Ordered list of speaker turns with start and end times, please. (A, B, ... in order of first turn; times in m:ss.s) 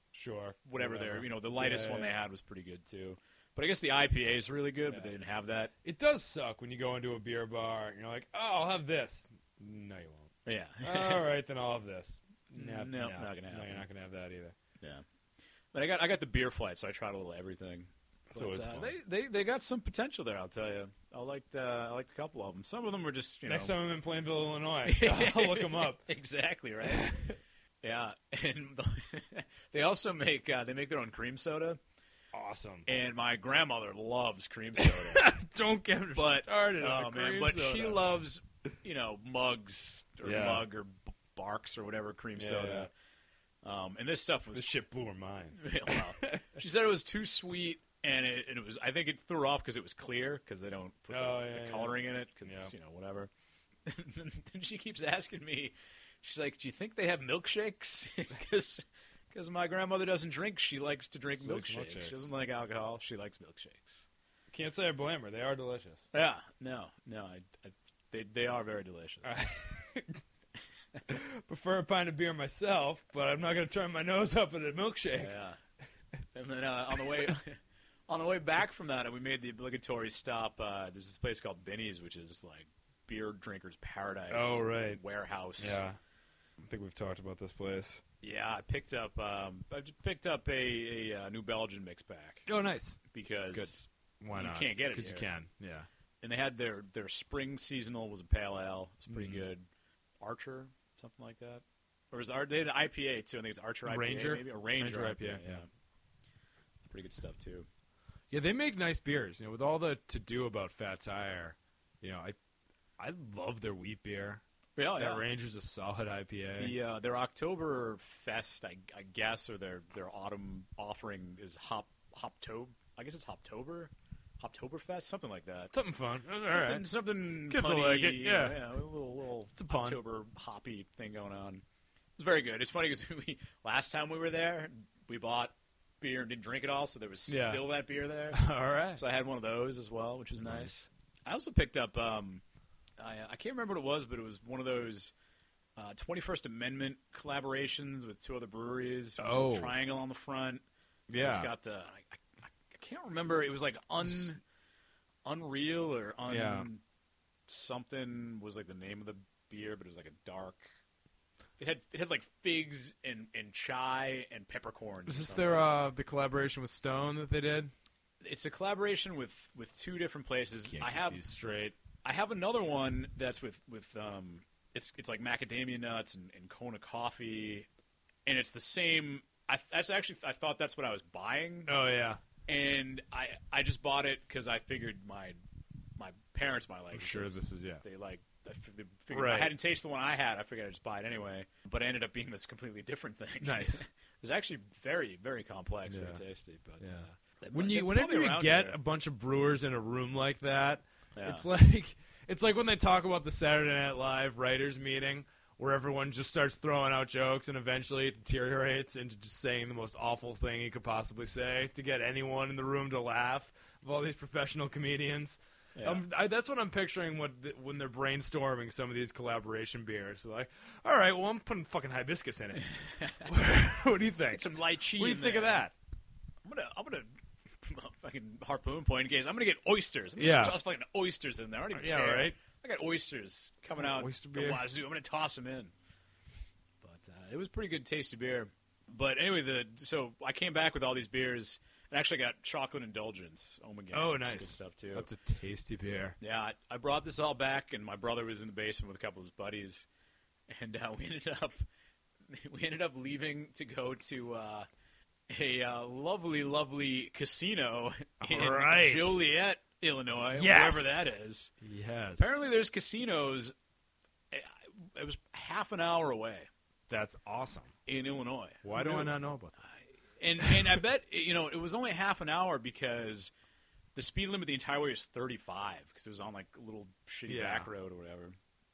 0:00.1-0:02.2 A
0:00.6-0:05.7 B
0:05.8-0:14.6 A
0:10.4-0:11.3 B
0:12.5-0:13.8 B
0:15.7-0:23.7 B
0:18.3-0:18.9 A
0:23.4-0:26.0 A
0:24.8-0:27.3 B
0:26.8-0:27.3 A
0:27.8-0:31.8 B
0:32.3-0:32.9 A
0:32.8-0:35.3 B
0:34.8-0:38.0 A
0:36.1-0:42.9 B
0:40.2-0:40.6 A
0:42.4-0:42.9 A
0:43.6-0:44.7 B
0:44.5-0:46.4 A
0:45.5-0:53.3 B
0:51.1-0:52.7 A
0:53.8-1:04.0 B
1:01.4-1:02.3 A
1:04.5-1:06.1 A
1:06.1-1:09.4 B
1:09.2-1:10.2 A
1:11.1-1:15.4 A
1:15.2-1:15.6 B
1:16.3-1:25.8 B
1:24.3-1:25.0 A
1:25.6-1:26.0 A
1:26.6-1:28.0 A
1:28.2-1:32.5 B
1:32.4-1:33.0 A
1:33.1-1:35.3 B
1:33.5-1:35.9 A
1:36.2-1:39.6 B
1:39.1-1:39.5 A
1:40.2-1:45.7 B
1:43.8-1:45.6 A
1:46.8-1:47.7 B
1:48.3-1:52.4 A
1:53.0-1:54.4 A
1:54.8-1:55.2 B
1:55.0-1:56.8 A
1:56.6-2:05.7 B
2:05.7-2:06.8 A
2:06.4-2:11.6 B
2:07.4-2:08.6 A
2:09.6-2:10.0 A
2:12.2-2:22.4 B
2:17.3-2:17.6 A
2:18.3-2:19.0 A
2:20.4-2:20.7 A
2:23.0-2:25.1 B
2:25.8-2:30.6 B
2:29.2-2:29.7 A
2:31.1-2:31.5 A
2:31.2-2:34.4 B
2:35.2-2:36.8 B
2:36.3-2:36.7 A
2:37.5-2:40.7 B
2:41.6-2:45.7 B
2:45.1-2:47.7 A
2:48.2-2:51.2 B
2:50.7-2:51.8 A
2:52.0-2:57.7 B
2:58.2-3:01.7 B
3:01.7-3:02.2 A
3:02.5-3:05.4 B
3:06.0-3:18.8 B
3:06.9-3:07.8 A
3:09.1-3:09.5 A
3:13.4-3:13.8 A
3:15.9-3:16.2 A
3:16.8-3:42.7 A
3:21.1-3:21.5 B
3:35.7-3:36.0 B
3:43.0-3:43.2 B
3:43.2-3:45.7 A
3:44.3-3:45.7 B
3:46.4-3:47.1 B
3:47.6-3:55.7 B
3:50.2-3:50.6 A
3:51.7-3:52.4 A
3:53.8-3:54.6 A
3:56.8-4:05.1 B
4:03.9-4:06.2 A
4:06.2-4:09.8 B
4:10.5-4:11.6 B
4:12.3-4:14.6 B
4:15.3-4:21.5 B
4:18.2-4:19.2 A
4:20.3-4:22.4 A
4:22.2-4:23.5 B
4:24.3-4:26.5 B
4:26.9-4:27.7 A
4:27.8-4:29.2 B
4:28.6-4:29.6 A
4:29.7-4:33.3 B
4:30.4-4:30.8 A
4:33.9-4:38.3 B
4:37.3-4:37.7 A